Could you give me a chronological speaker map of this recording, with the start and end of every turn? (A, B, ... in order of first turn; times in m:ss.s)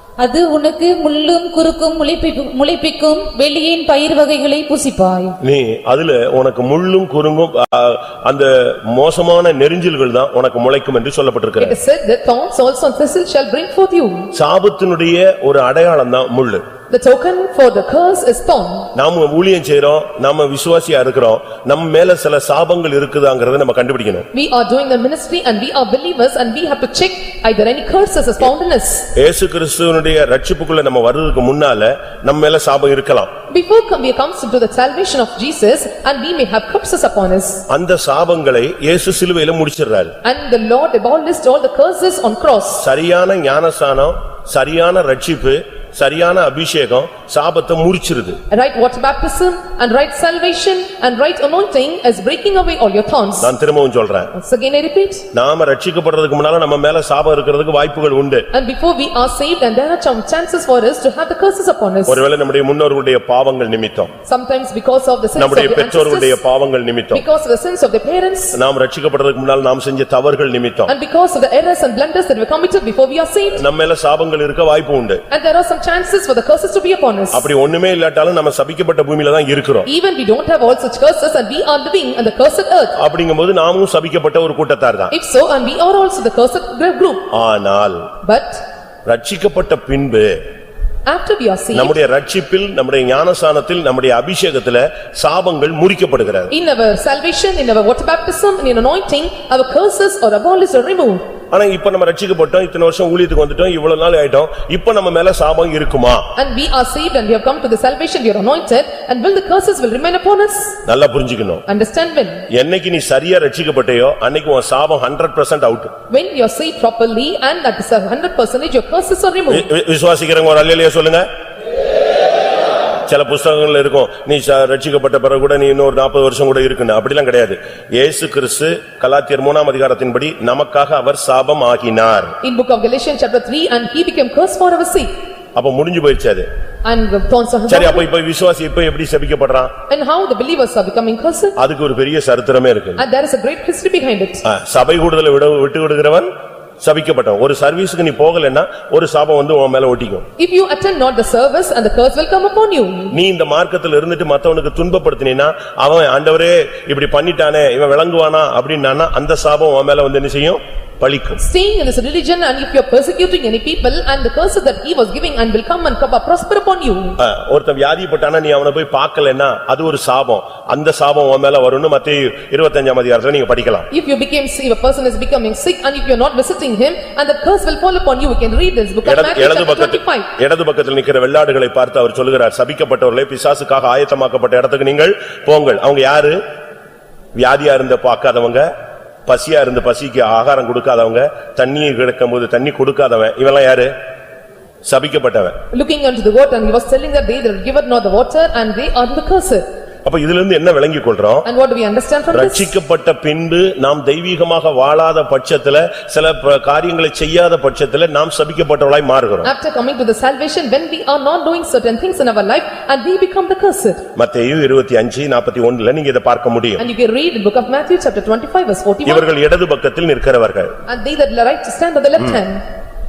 0:00.2-0:05.4 A
0:05.4-0:11.8 B
0:11.6-0:14.3 C
0:14.3-0:16.6 B
0:16.9-0:18.9 C
0:19.0-0:24.3 B
0:24.3-0:29.1 C
0:29.2-0:33.3 B
0:33.5-0:37.7 C
0:37.7-0:40.1 B
0:40.2-0:42.8 C
0:42.8-0:48.4 B
0:48.5-0:53.5 C
0:53.4-0:54.3 B
0:54.4-0:55.3 C
0:55.3-0:58.5 B
0:58.5-1:02.2 C
1:02.1-1:04.1 B
1:04.3-1:06.4 C
1:05.4-1:07.2 B
1:07.1-1:08.6 C
1:08.6-1:10.9 B
1:10.9-1:13.6 C
1:13.6-1:15.2 B
1:15.3-1:17.5 C
1:17.3-1:19.9 B
1:19.9-1:23.0 C
1:23.0-1:25.1 B
1:25.1-1:27.3 C
1:27.3-1:28.1 B
1:28.2-1:28.6 C
1:29.1-1:30.4 B
1:31.1-1:32.0 C
1:31.7-1:36.5 B
1:36.5-1:41.2 C
1:41.5-1:46.3 B
1:46.4-1:50.8 C
1:50.8-1:51.6 B
1:51.7-1:52.4 C
1:52.5-1:55.9 B
1:56.1-1:59.7 C
1:59.5-2:01.3 B
2:03.1-2:12.4 B
2:12.4-2:15.1 C
2:15.6-2:16.5 B
2:16.8-2:18.1 C
2:17.7-2:19.7 B
2:19.9-2:21.6 C
2:21.6-2:23.0 B
2:23.0-2:24.4 C
2:24.4-2:26.3 B
2:26.8-2:30.2 B
2:30.4-2:33.2 C
2:33.1-2:41.4 B
2:41.4-2:47.2 C
2:47.2-2:53.9 B
2:53.9-3:00.3 C
2:59.0-3:06.4 B
3:07.4-3:08.7 B
3:09.3-3:13.9 B
3:14.8-3:15.6 B
3:15.7-3:19.6 C
3:20.0-3:21.5 B
3:21.4-3:22.7 C
3:22.3-3:29.5 B
3:29.4-3:34.0 C
3:34.2-3:36.9 B
3:36.8-3:39.3 C
3:39.1-3:40.7 B
3:40.9-3:42.6 C